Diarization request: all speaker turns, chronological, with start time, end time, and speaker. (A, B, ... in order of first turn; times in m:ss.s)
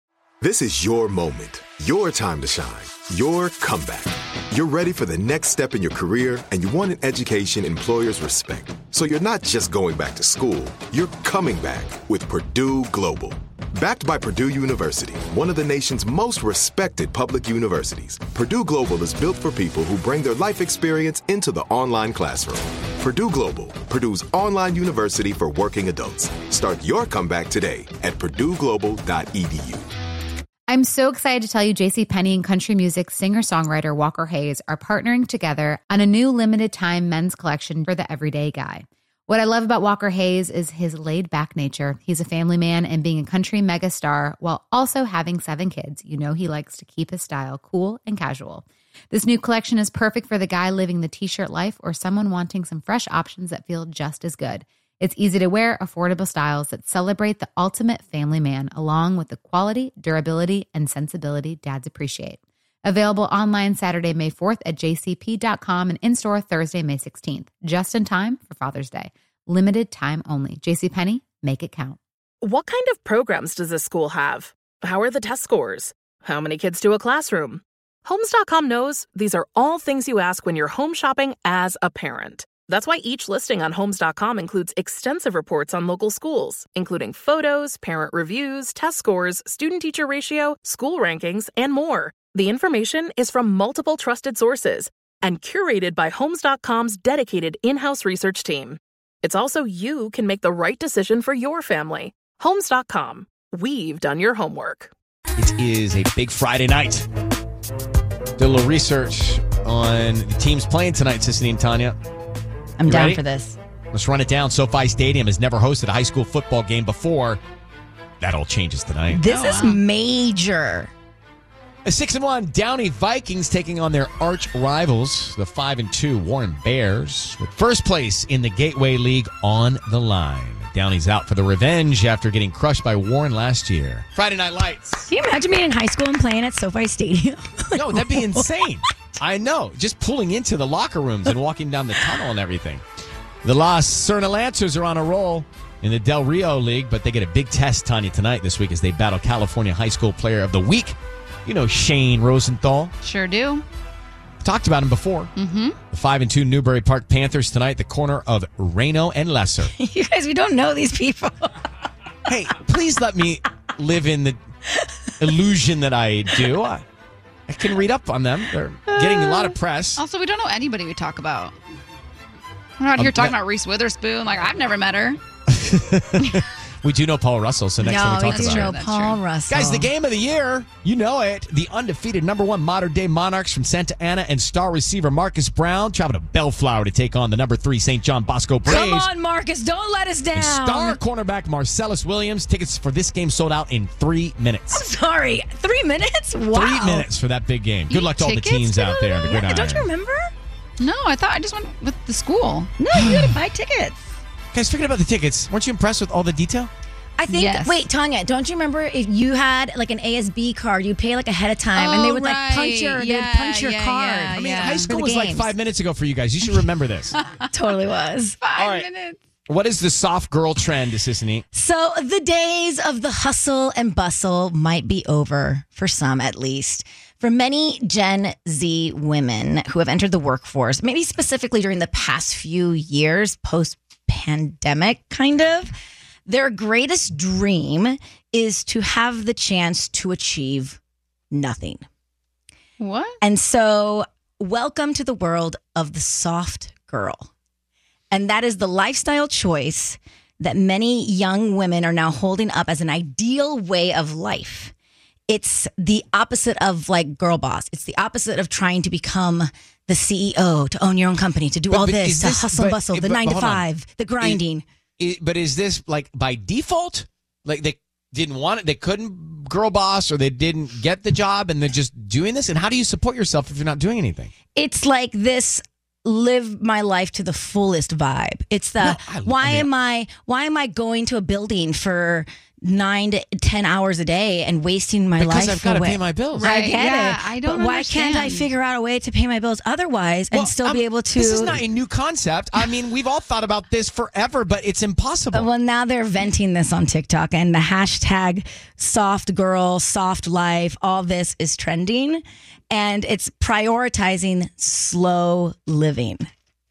0:00.4-0:29.8 A
0:30.7-1:12.0 B
1:12.4-1:44.9 C
1:45.4-1:47.0 D
1:48.4-1:52.0 D
1:52.8-1:53.6 E
1:52.8-1:53.2 D
1:53.9-1:57.4 D
1:58.2-1:59.3 D
1:59.1-2:00.9 E
1:59.3-1:59.8 F
2:01.8-2:15.1 D
2:15.1-2:18.8 E
2:17.7-2:22.8 D
2:23.4-2:32.9 D
2:33.0-2:33.6 F
2:34.4-2:35.3 D
2:35.4-2:35.8 F
2:35.9-2:39.7 D
2:39.6-2:41.7 E
2:42.2-2:44.4 D
2:45.2-2:46.8 D
2:47.5-2:50.0 D
2:48.9-2:51.5 F
2:52.8-2:55.2 F
2:52.9-2:53.3 D
2:55.5-2:58.7 D
2:57.8-2:59.9 E
2:58.2-2:59.2 F
2:59.5-3:09.1 D
3:08.6-3:11.0 E
3:10.3-3:14.8 D
3:14.7-3:17.1 E
3:16.5-3:19.9 D
3:17.9-3:19.2 F
3:19.2-3:20.3 E
3:20.8-3:22.7 F
3:22.8-3:24.2 E
3:22.9-3:23.4 D
3:24.5-3:26.7 D
3:27.2-3:35.6 E
3:27.3-3:27.8 F
3:31.7-3:34.9 F
3:34.3-3:37.1 D
3:36.4-3:37.4 F
3:37.5-3:38.4 E
3:38.4-3:39.2 F
3:38.6-3:38.9 D
3:39.5-3:41.4 D
3:41.5-3:55.7 E
3:56.3-4:00.8 E
4:01.3-4:01.9 E
4:02.8-4:03.2 F
4:03.2-4:07.3 E
4:08.1-4:14.7 E
4:15.3-4:24.6 E
4:21.7-4:23.7 D
4:25.0-4:34.3 D
4:34.5-4:51.6 E
4:38.8-4:39.7 D
4:45.2-4:46.5 D
4:46.3-4:48.5 F
4:50.3-4:55.5 D
4:55.3-5:06.3 E